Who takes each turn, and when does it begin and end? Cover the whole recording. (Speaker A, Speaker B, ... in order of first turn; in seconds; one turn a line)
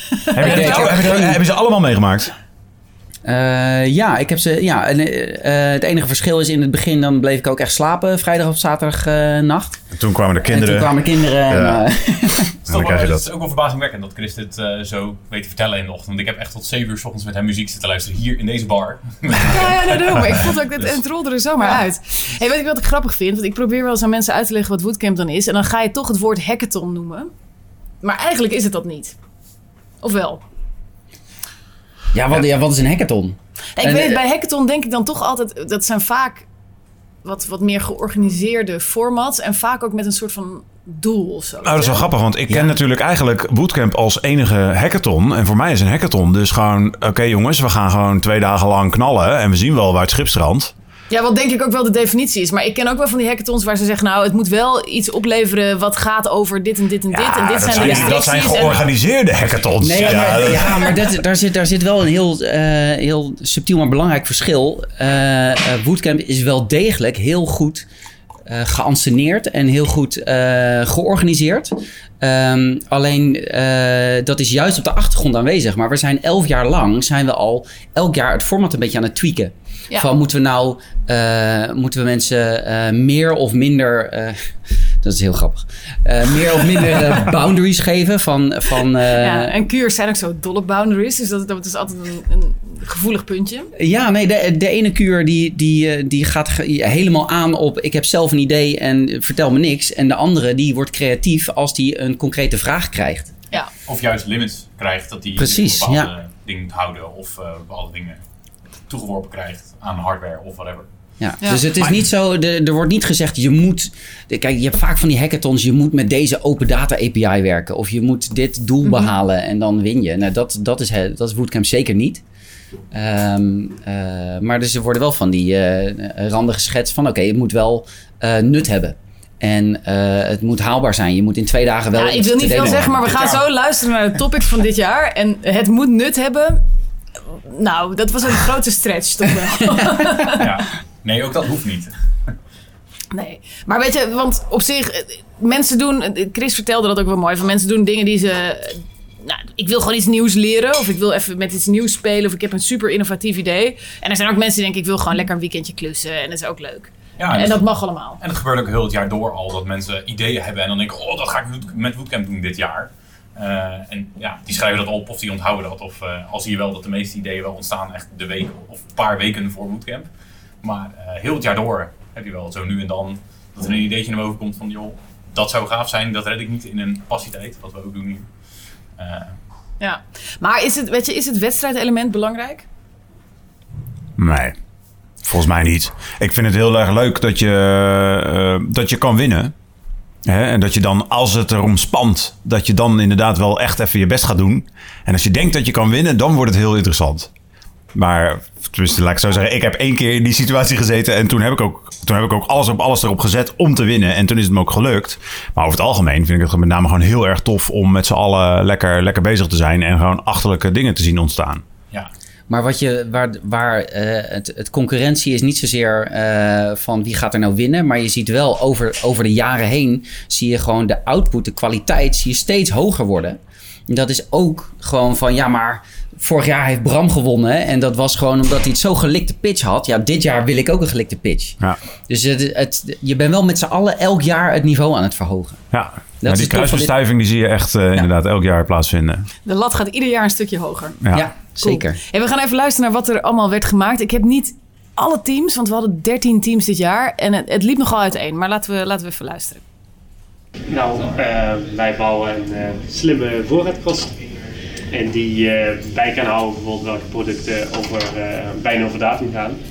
Speaker A: 0.3-2.3
Speaker B: 0.4-1.4
Speaker B: 3.2-9.8
Speaker A: 9.9-11.0
Speaker B: 10.4-12.5
Speaker A: 11.5-11.8
Speaker C: 12.7-20.4
Speaker A: 12.7-13.2
Speaker D: 19.4-27.3
Speaker D: 28.0-29.2
Speaker D: 30.0-30.4
Speaker B: 32.1-34.2
Speaker D: 33.8-36.5
Speaker D: 37.2-42.1
Speaker A: 41.6-50.7
Speaker D: 51.1-58.9
Speaker A: 57.1-60.9
Speaker B: 57.8-58.2
Speaker C: 59.3-60.6
Speaker B: 59.8-67.9
Speaker B: 68.5-84.4
Speaker B: 85.0-89.6
Speaker D: 89.1-93.7
Speaker B: 93.8-103.3
Speaker C: 103.9-108.2
Speaker B: 105.4-106.1
Speaker C: 108.9-110.9
Speaker B: 111.2-122.2
Speaker B: 122.9-133.0
Speaker D: 132.0-136.6
Speaker C: 132.9-133.4
Speaker D: 137.3-140.4
Speaker C: 140.3-141.9
Speaker D: 143.1-158.2
Speaker C: 157.2-157.6
Speaker C: 158.2-170.1
Speaker C: 170.6-178.3
Speaker C: 179.0-179.4
Speaker D: 179.8-182.7
Speaker A: 184.2-184.6
Speaker A: 185.2-189.5
Speaker A: 190.3-197.3
Speaker A: 197.9-211.6
Speaker B: 212.5-235.7
Speaker A: 235.7-239.2
Speaker B: 236.2-237.0
Speaker D: 239.5-241.0
Speaker B: 241.1-242.0
Speaker D: 241.6-249.6
Speaker E: 250.7-254.1
Speaker E: 254.9-259.6